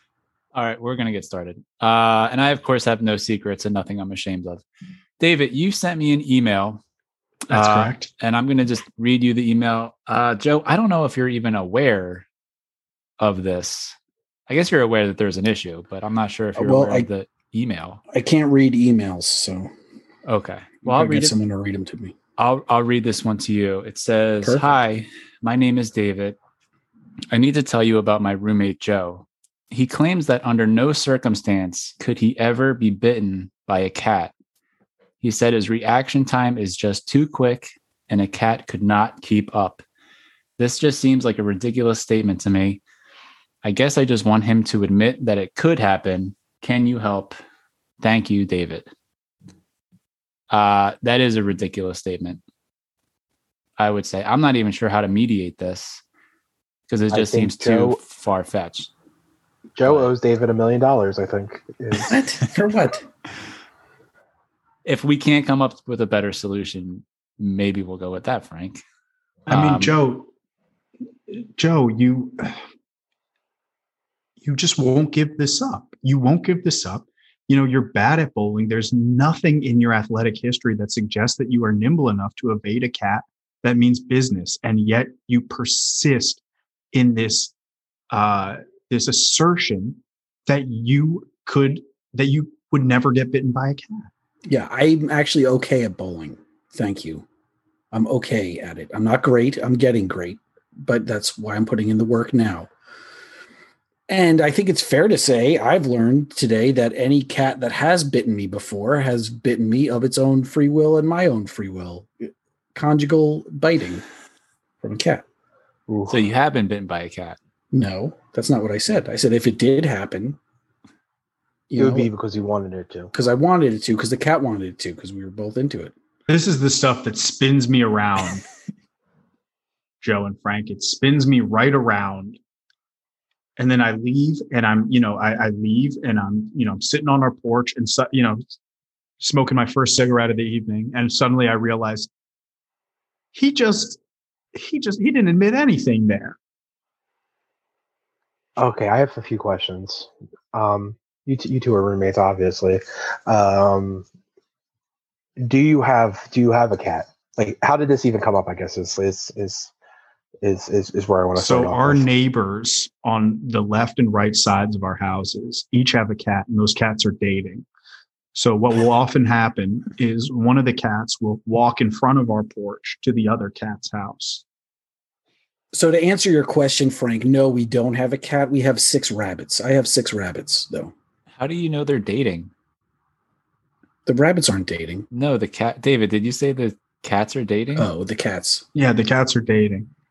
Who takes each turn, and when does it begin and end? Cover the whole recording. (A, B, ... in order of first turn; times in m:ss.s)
0:00.5-0:04.6 A
0:05.2-0:06.8 A
0:07.5-0:08.1 B
0:07.5-0:12.2 A
0:13.2-0:13.9 A
0:14.5-0:18.0 A
0:16.6-0:17.1 C
0:18.1-0:19.7 C
0:20.2-0:21.3 A
0:20.8-0:22.1 C
0:22.4-0:26.4 A
0:24.4-0:24.7 C
0:27.3-0:34.3 A
0:35.2-0:39.8 A
0:40.6-0:42.8 A
0:43.6-0:47.3 A
0:48.0-0:48.9 A
0:50.5-0:52.4 A
0:53.8-0:56.0 A
0:56.9-0:58.9 A
0:57.1-0:58.0 D
0:59.8-1:02.2 D
0:59.8-1:00.1 A
1:02.0-1:03.0 C
1:04.8-1:08.8 A
1:09.5-1:10.3 B
1:09.5-1:09.9 A
1:11.3-1:12.6 B
1:14.4-1:26.4 B
1:26.9-1:27.5 B
1:28.1-1:34.1 B
1:34.4-1:37.2 C
1:37.9-1:42.7 C
1:44.1-1:52.1 C
1:52.7-1:54.0 C
1:54.8-1:55.2 C
1:55.9-1:56.1 D
1:56.1-1:57.4 A
1:57.7-2:00.4 C
2:01.7-2:02.1 C
2:01.8-2:03.1 D
2:03.1-2:05.9 C
2:06.3-2:08.4 B
2:10.0-2:12.4 B
2:13.6-2:18.4 B
2:19.2-2:22.1 B
2:23.3-2:24.0 B
2:24.5-2:26.4 B
2:28.6-2:34.0 D
2:35.4-2:39.7 D
2:40.4-2:42.0 D
2:41.4-2:47.6 B
2:48.3-2:54.4 B
2:55.7-3:00.9 C
3:01.4-3:02.5 A
3:04.0-3:05.0 C
3:05.1-3:07.9 A
3:07.8-3:08.6 C
3:08.7-3:09.9 B